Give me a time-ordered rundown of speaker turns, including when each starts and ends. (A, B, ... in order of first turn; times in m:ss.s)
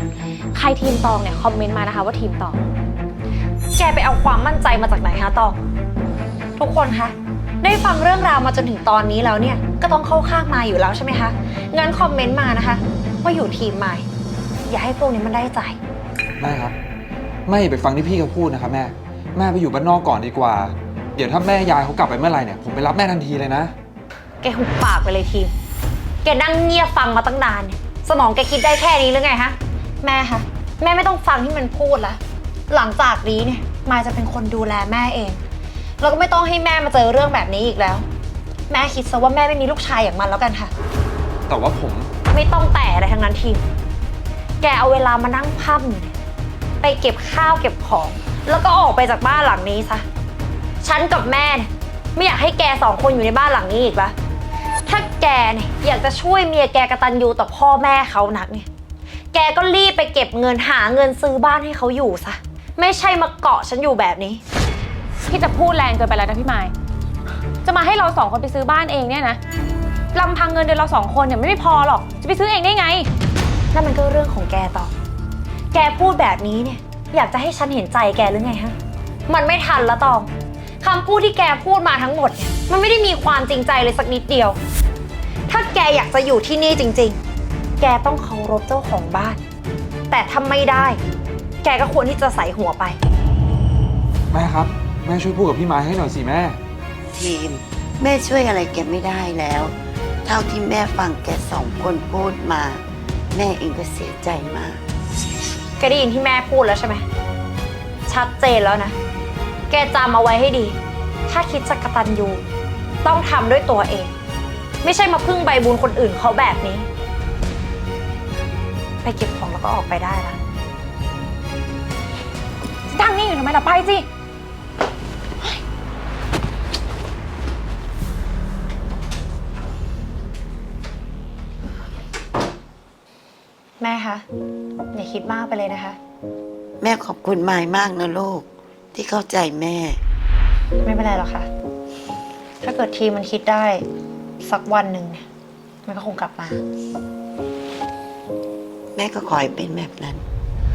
0:00.5-0:02.6 A
0:03.8-0:05.6 B
0:06.6-0:14.1 B
0:14.7-0:15.8 B
0:16.4-0:16.8 C
0:17.5-0:23.7 C
0:24.4-0:25.5 B
0:26.2-0:35.4 B
0:36.0-0:38.1 B
0:38.7-0:40.7 B
0:41.5-0:42.1 C
0:42.3-0:43.6 B
0:44.6-0:46.2 B
0:46.8-0:50.0 B
0:50.8-0:54.2 B
0:54.9-0:58.7 B
0:59.3-1:04.4 B
1:05.3-1:06.7 A
1:07.6-1:09.4 A
1:10.1-1:13.1 A
1:13.7-1:14.9 B
1:15.7-1:18.8 B
1:19.3-1:20.3 B
1:20.8-1:24.6 B
1:25.5-1:27.2 B
1:27.8-1:29.4 B
1:30.1-1:31.0 B
1:31.6-1:33.0 B
1:34.3-1:36.6 C
1:37.1-1:44.8 D
1:45.8-1:47.0 B
1:48.1-1:49.0 B
1:49.7-1:50.8 B
1:51.3-1:52.4 B
1:53.0-1:54.1 B
1:54.8-1:56.9 B
1:59.0-2:00.4 B
2:02.9-2:04.1 A
2:13.8-2:14.2 B
2:14.9-2:16.0 B
2:16.8-2:20.0 D
2:20.8-2:21.5 B
2:22.6-2:23.8 B
2:24.4-2:25.2 B
2:25.9-2:26.6 B
2:29.0-2:30.2 D